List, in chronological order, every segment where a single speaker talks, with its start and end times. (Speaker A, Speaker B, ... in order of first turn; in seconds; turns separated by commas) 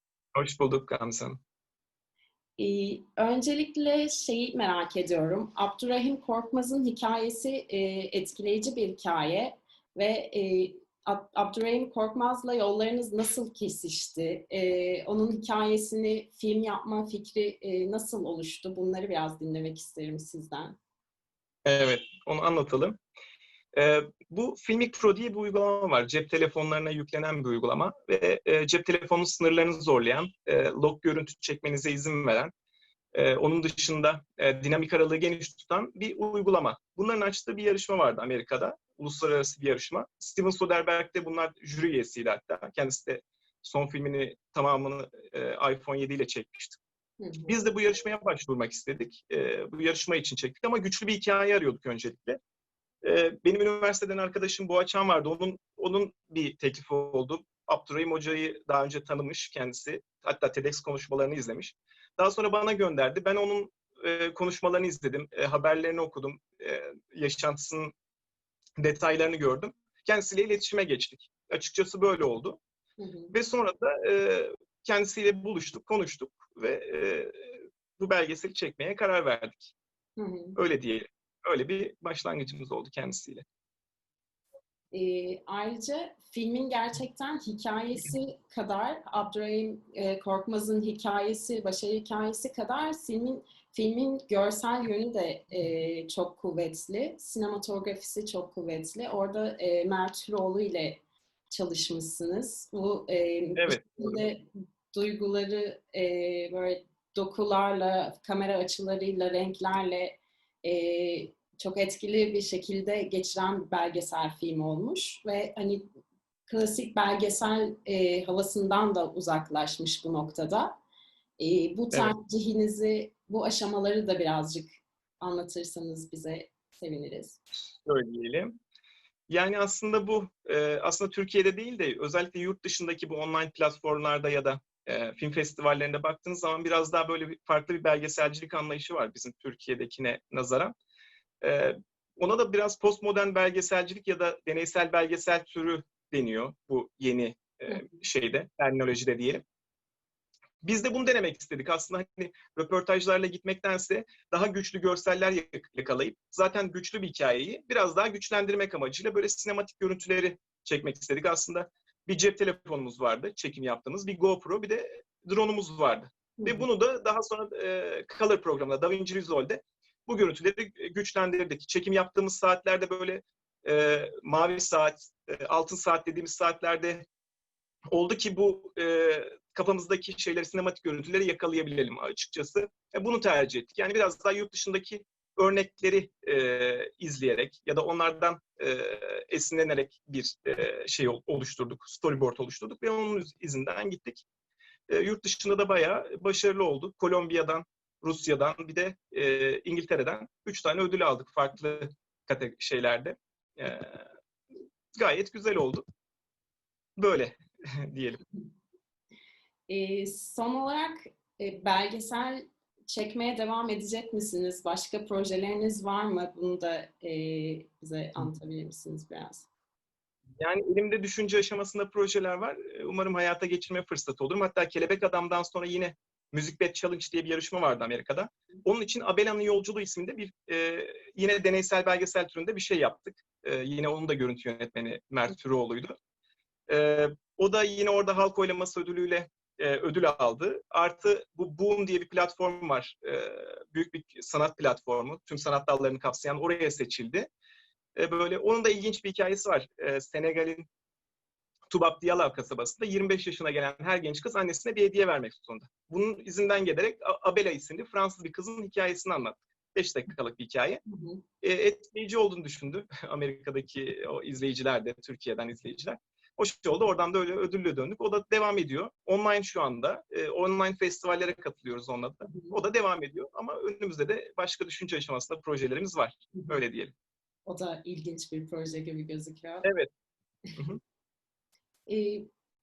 Speaker A: 0.3-1.4, Speaker B: 2.6-20.8, Speaker A: 21.6-23.0, Speaker A: 23.7-32.5, Speaker A: 33.1-46.8, Speaker B: 47.2-47.6, Speaker A: 47.5-52.4, Speaker A: 53.0-67.9, Speaker A: 68.8-72.6, Speaker B: 73.0-73.3, Speaker A: 73.3-79.7, Speaker B: 80.2-80.6, Speaker A: 80.6-83.4, Speaker B: 84.9-115.9, Speaker A: 103.5-104.2, Speaker B: 116.5-120.8, Speaker B: 121.4-127.4, Speaker A: 127.8-128.6, Speaker A: 129.3-140.7, Speaker A: 141.4-149.4, Speaker A: 150.6-177.0, Speaker B: 166.4-166.7, Speaker A: 177.9-194.2, Speaker A: 194.9-204.0, Speaker A: 204.9-205.8, Speaker A: 207.0-208.2, Speaker B: 209.7-219.5, Speaker A: 220.4-235.9, Speaker A: 236.7-247.3, Speaker A: 247.9-250.7, Speaker A: 251.7-260.8, Speaker B: 260.9-261.2, Speaker A: 261.4-276.9, Speaker B: 272.2-272.6, Speaker B: 277.4-279.7, Speaker A: 279.6-279.9, Speaker B: 281.9-282.3